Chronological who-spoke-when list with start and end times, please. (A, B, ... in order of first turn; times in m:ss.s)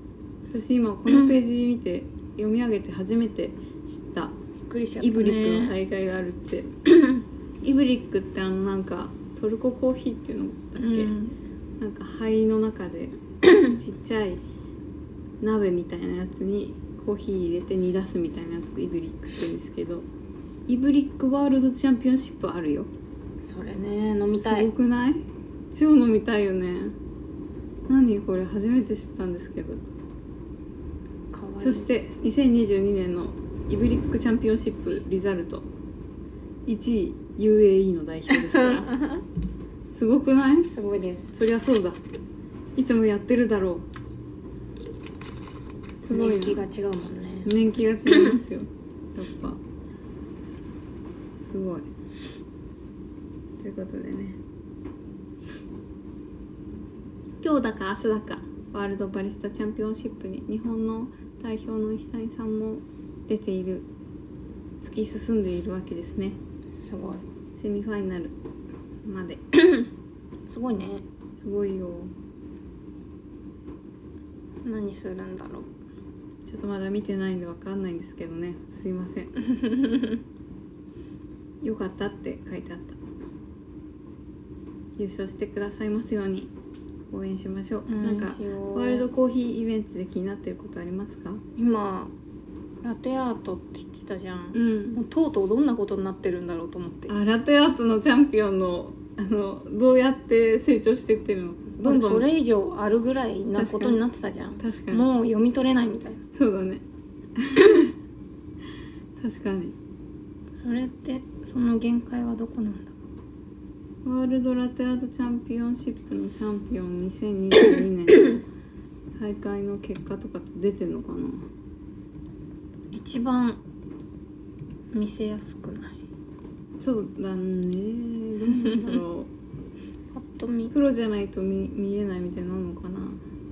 0:00.5-0:04.4 A
0:04.6-0:05.8 B
0:05.0-0:06.7 A
0:07.6-0:11.1 A
0:10.8-0:11.4 B
0:11.8-0:14.4 A
0:15.4-0:20.1 A
0:20.7-0:22.9 A
0:23.4-0:24.7 B
0:24.3-0:27.0 A
0:27.9-0:29.8 A
0:31.3-0:31.9 B
0:31.6-0:35.7 A
0:36.6-0:39.0 A
0:38.3-0:39.2 B
0:39.9-0:40.7 A
0:40.7-0:41.3 B
0:41.3-0:42.0 A
0:42.8-0:43.9 A
0:46.0-0:46.6 A
0:46.1-0:47.5 B
0:47.4-0:49.6 A
0:48.1-0:48.4 B
0:51.4-0:51.8 A
0:53.6-0:54.4 A
0:57.4-1:03.9 A
1:04.8-1:06.4 A
1:06.8-1:07.2 B
1:07.6-1:08.4 A
1:09.0-1:09.4 A
1:09.5-1:09.9 B
1:10.5-1:11.0 B
1:11.4-1:12.1 A
1:14.6-1:15.7 B
1:16.4-1:19.3 A
1:19.4-1:20.2 B
1:21.6-1:23.0 A
1:25.0-1:26.5 A
1:27.1-1:31.4 A
1:27.9-1:29.1 B
1:31.6-1:32.1 B
1:32.8-1:37.1 B
1:34.5-1:35.0 A
1:37.1-1:42.2 A
1:41.8-1:46.2 B
1:43.5-1:44.0 A
1:44.6-1:45.1 A
1:46.3-1:46.8 A
1:47.4-1:47.9 A
1:49.2-1:49.8 A
1:50.6-1:53.0 B
1:54.0-1:58.4 A
1:59.1-2:01.4 A
2:02.9-2:03.6 B
2:04.9-2:06.0 B
2:06.8-2:09.3 A
2:08.6-2:08.9 B
2:10.1-2:10.7 B
2:10.7-2:13.2 A